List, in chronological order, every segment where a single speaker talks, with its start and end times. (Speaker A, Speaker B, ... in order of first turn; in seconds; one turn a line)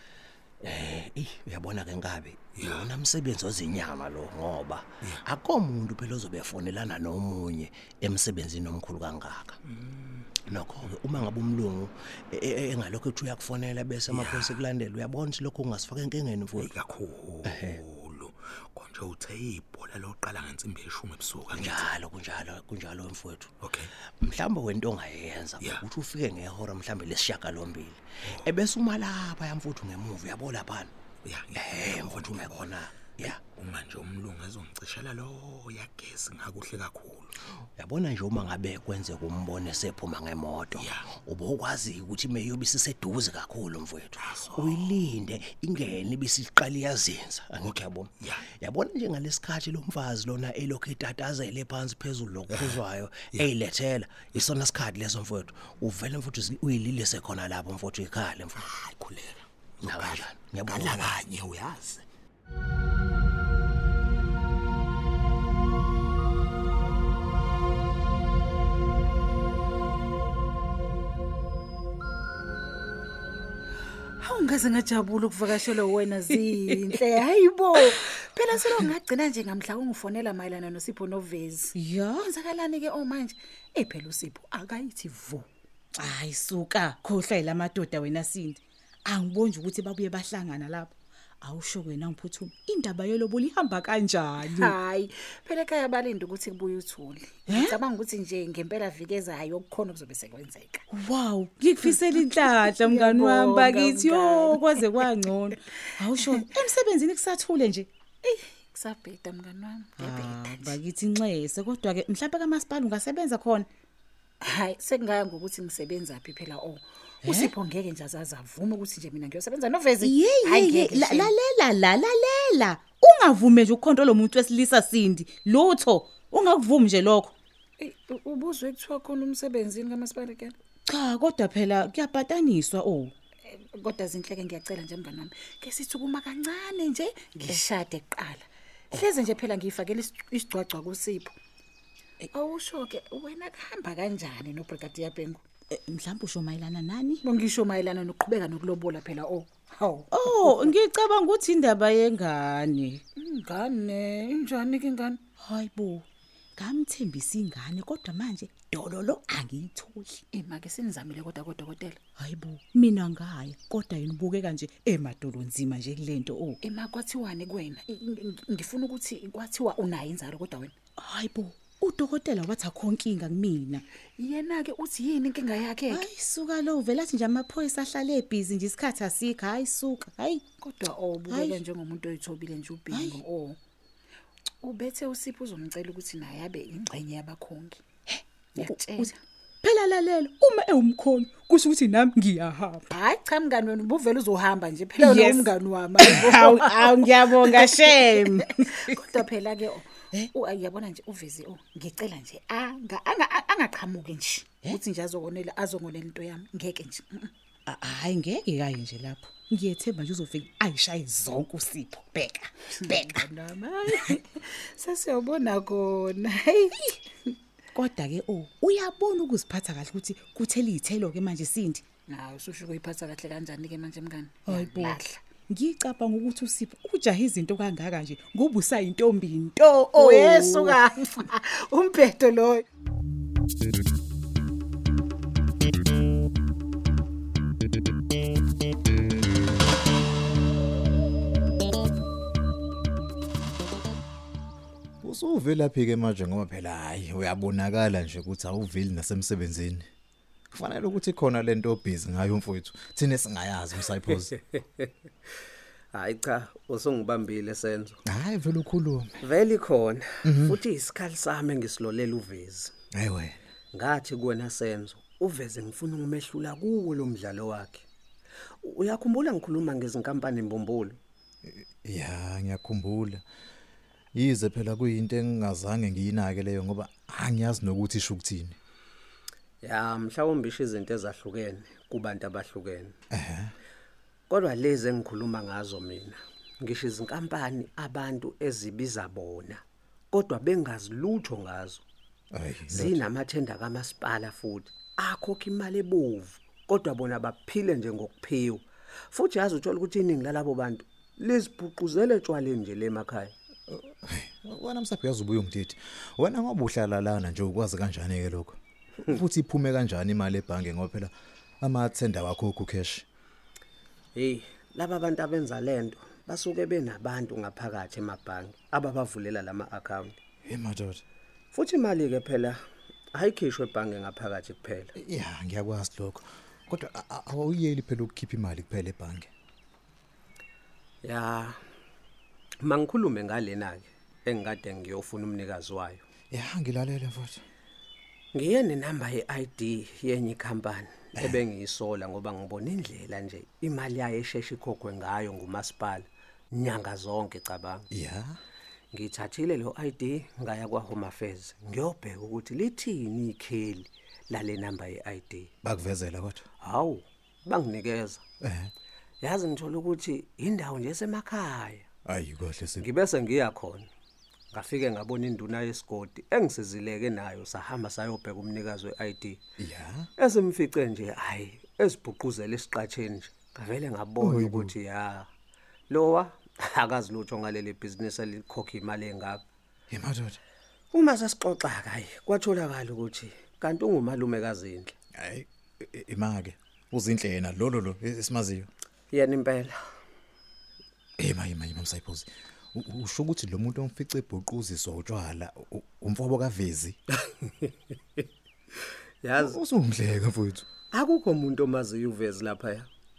Speaker A: 0.6-9.6
Speaker B: 2.5-2.9
Speaker B: 9.7-10.3
Speaker A: 10.5-16.7
Speaker B: 14.1-14.6
Speaker B: 16.6-21.9
Speaker A: 17.4-17.8
Speaker A: 21.5-23.5
Speaker B: 23.6-23.9
Speaker A: 24.2-30.9
Speaker B: 25.6-25.9
Speaker B: 31.2-37.4
Speaker A: 31.5-33.4
Speaker A: 37.8-58.6
Speaker B: 40.7-41.1
Speaker B: 44.2-45.1
Speaker B: 47.6-48.5
Speaker B: 52.5-53.5
Speaker B: 58.5-62.0
Speaker A: 59.8-61.2
Speaker C: 74.2-85.5
Speaker D: 81.7-82.3
Speaker D: 86.0-94.7
Speaker C: 94.5-100.8
Speaker D: 97.5-97.8
Speaker D: 100.9-107.9
Speaker C: 101.8-105.1
Speaker C: 108.2-110.8
Speaker D: 110.0-113.7
Speaker C: 114.4-121.3
Speaker D: 117.2-117.5
Speaker D: 120.0-127.3
Speaker C: 127.8-130.6
Speaker D: 130.9-133.1
Speaker C: 133.4-141.3
Speaker C: 142.3-145.4
Speaker D: 145.7-147.2
Speaker C: 147.2-150.7
Speaker D: 150.1-153.0
Speaker C: 153.2-155.2
Speaker D: 155.4-160.2
Speaker C: 160.3-162.0
Speaker D: 162.2-166.6
Speaker C: 166.6-170.7
Speaker D: 171.0-173.8
Speaker C: 174.2-176.1
Speaker D: 175.9-180.4
Speaker C: 180.6-183.6
Speaker D: 181.3-181.6
Speaker D: 182.9-183.2
Speaker C: 184.6-187.8
Speaker D: 188.1-189.1
Speaker C: 188.6-189.2
Speaker D: 189.6-192.9
Speaker C: 192.9-207.3
Speaker D: 195.0-199.0
Speaker D: 207.7-213.3
Speaker C: 212.8-217.0
Speaker D: 217.7-221.8
Speaker C: 222.1-225.2
Speaker D: 224.4-230.8
Speaker C: 229.9-232.6
Speaker E: 245.0-249.8
Speaker E: 250.5-254.4
Speaker F: 254.5-254.9
Speaker F: 255.9-258.0
Speaker E: 258.1-259.1
Speaker F: 259.2-262.7
Speaker E: 260.2-260.6
Speaker E: 262.9-263.3
Speaker F: 263.7-267.9
Speaker F: 268.6-271.0
Speaker E: 271.5-273.2
Speaker E: 274.1-278.5
Speaker F: 279.6-282.9
Speaker E: 283.1-283.5
Speaker F: 284.3-289.6
Speaker F: 290.1-291.8
Speaker E: 292.3-293.0
Speaker F: 292.7-303.3
Speaker E: 303.7-313.0
Speaker F: 314.1-320.1
Speaker E: 320.4-321.0
Speaker F: 321.5-322.6
Speaker F: 323.1-324.9
Speaker E: 325.0-329.3
Speaker F: 331.0-331.6
Speaker F: 332.6-336.0
Speaker E: 336.3-337.4
Speaker F: 338.3-347.9
Speaker E: 347.9-348.4
Speaker F: 348.9-355.5
Speaker E: 355.6-356.5
Speaker F: 356.6-358.2
Speaker E: 358.4-358.7
Speaker F: 359.2-361.8
Speaker E: 362.1-362.9
Speaker F: 362.8-363.9
Speaker F: 364.5-369.4
Speaker E: 369.6-370.1
Speaker F: 370.2-375.3
Speaker E: 374.2-374.7
Speaker F: 375.9-379.4
Speaker E: 379.9-380.4
Speaker F: 380.9-384.9
Speaker E: 385.2-388.7
Speaker F: 389.1-389.8
Speaker E: 391.2-397.0
Speaker F: 397.2-398.2
Speaker F: 399.2-399.6
Speaker E: 399.4-400.6
Speaker F: 400.9-402.9